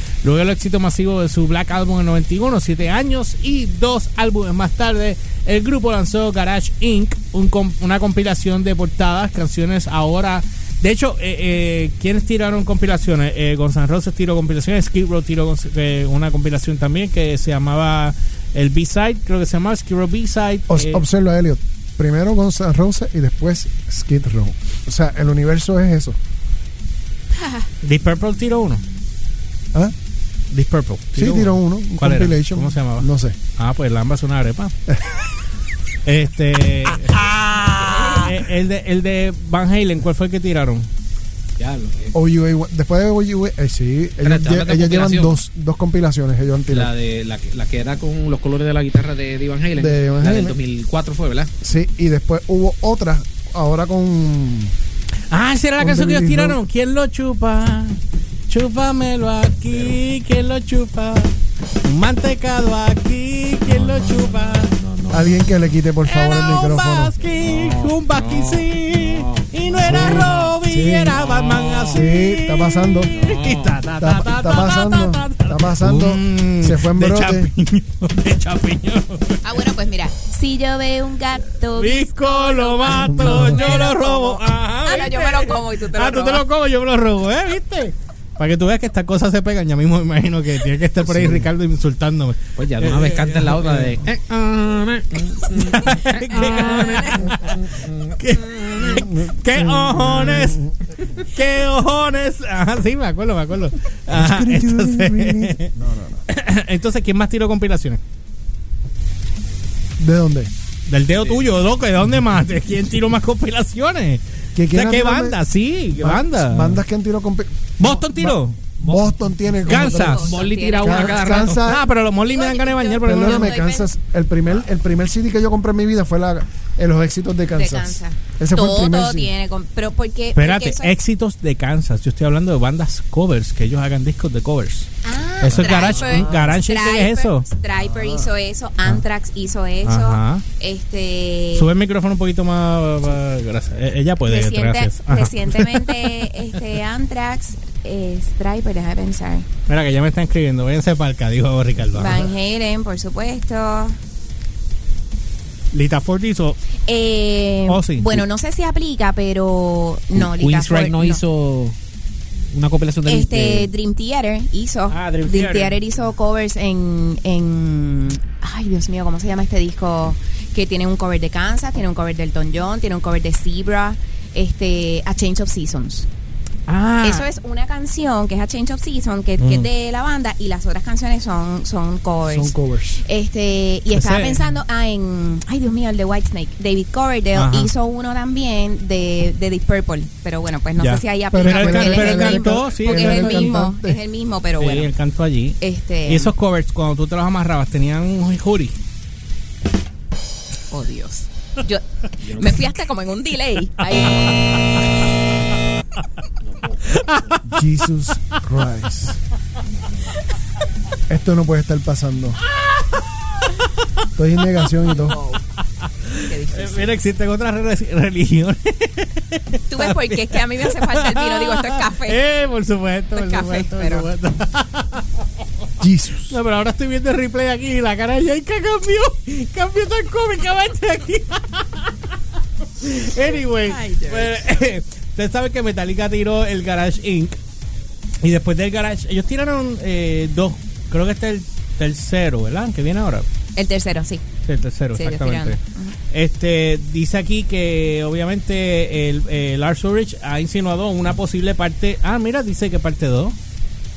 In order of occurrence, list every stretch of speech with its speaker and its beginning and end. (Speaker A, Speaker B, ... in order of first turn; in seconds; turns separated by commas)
Speaker A: 0.2-21.0, Speaker B: 20.7-26.2, Speaker A: 27.8-28.8, Speaker A: 30.5-34.7, Speaker B: 31.1-33.4, Speaker B: 34.9-35.1, Speaker A: 36.0-37.3, Speaker B: 37.1-38.3, Speaker C: 37.8-38.2, Speaker A: 38.0-40.9, Speaker D: 41.6-42.1, Speaker B: 42.1-46.9, Speaker D: 44.2-45.4, Speaker D: 46.7-51.5, Speaker B: 49.7-50.6, Speaker B: 51.6-54.7, Speaker A: 55.3-64.7, Speaker B: 55.8-56.6, Speaker D: 59.7-60.0, Speaker D: 63.6-65.4, Speaker B: 65.1-67.1, Speaker A: 66.0-79.4, Speaker D: 66.4-66.7, Speaker D: 67.3-70.6, Speaker B: 69.8-71.2, Speaker D: 71.1-72.0, Speaker B: 71.9-73.1, Speaker D: 73.1-73.8, Speaker B: 74.0-77.5, Speaker C: 79.4-86.4, Speaker A: 81.7-94.0, Speaker B: 82.8-83.7, Speaker D: 91.0-91.4, Speaker D: 92.6-98.2, Speaker A: 95.4-105.7, Speaker C: 96.3-97.3, Speaker B: 98.8-100.9, Speaker B: 104.1-106.2, Speaker A: 106.3-108.0, Speaker B: 110.0-110.5, Speaker A: 110.9-116.8, Speaker D: 111.2-111.4, Speaker B: 114.5-115.4, Speaker B: 116.0-121.8, Speaker A: 117.8-118.6, Speaker D: 118.8-121.6, Speaker A: 119.7-123.6, Speaker C: 119.9-121.4, Speaker C: 122.3-123.9, Speaker B: 123.0-129.3, Speaker C: 127.5-130.9, Speaker A: 130.3-134.9, Speaker C: 135.0-141.7, Speaker A: 135.4-137.5, Speaker D: 135.5-136.6, Speaker B: 137.9-138.3, Speaker A: 139.8-140.4, Speaker A: 141.5-146.4, Speaker C: 144.2-149.5, Speaker A: 149.7-152.3, Speaker C: 151.9-154.0, Speaker A: 155.7-156.6, Speaker C: 156.8-161.2, Speaker A: 157.7-158.2, Speaker D: 160.1-161.8, Speaker D: 162.5-163.7, Speaker C: 163.0-176.1, Speaker A: 164.9-166.0, Speaker A: 176.7-177.2, Speaker C: 177.0-194.9, Speaker A: 179.4-179.7, Speaker B: 182.2-183.0, Speaker A: 183.9-184.4, Speaker A: 187.3-187.7, Speaker A: 190.8-193.6, Speaker B: 191.3-194.0, Speaker A: 194.6-198.8, Speaker C: 195.6-196.3, Speaker C: 200.7-204.6, Speaker D: 202.2-202.6, Speaker D: 206.4-207.2, Speaker A: 206.9-207.6, Speaker B: 207.5-209.2, Speaker B: 211.1-212.4, Speaker A: 212.5-213.5, Speaker B: 214.2-215.2, Speaker A: 214.4-214.8, Speaker C: 214.8-215.4, Speaker A: 215.8-225.1, Speaker C: 216.2-216.9, Speaker C: 219.7-222.2, Speaker C: 223.1-224.1, Speaker B: 225.8-226.4, Speaker A: 226.2-232.0, Speaker A: 232.8-237.4, Speaker C: 233.2-234.4, Speaker A: 238.2-243.3, Speaker C: 243.5-244.2, Speaker A: 244.4-245.6, Speaker C: 244.9-245.9, Speaker A: 246.1-253.3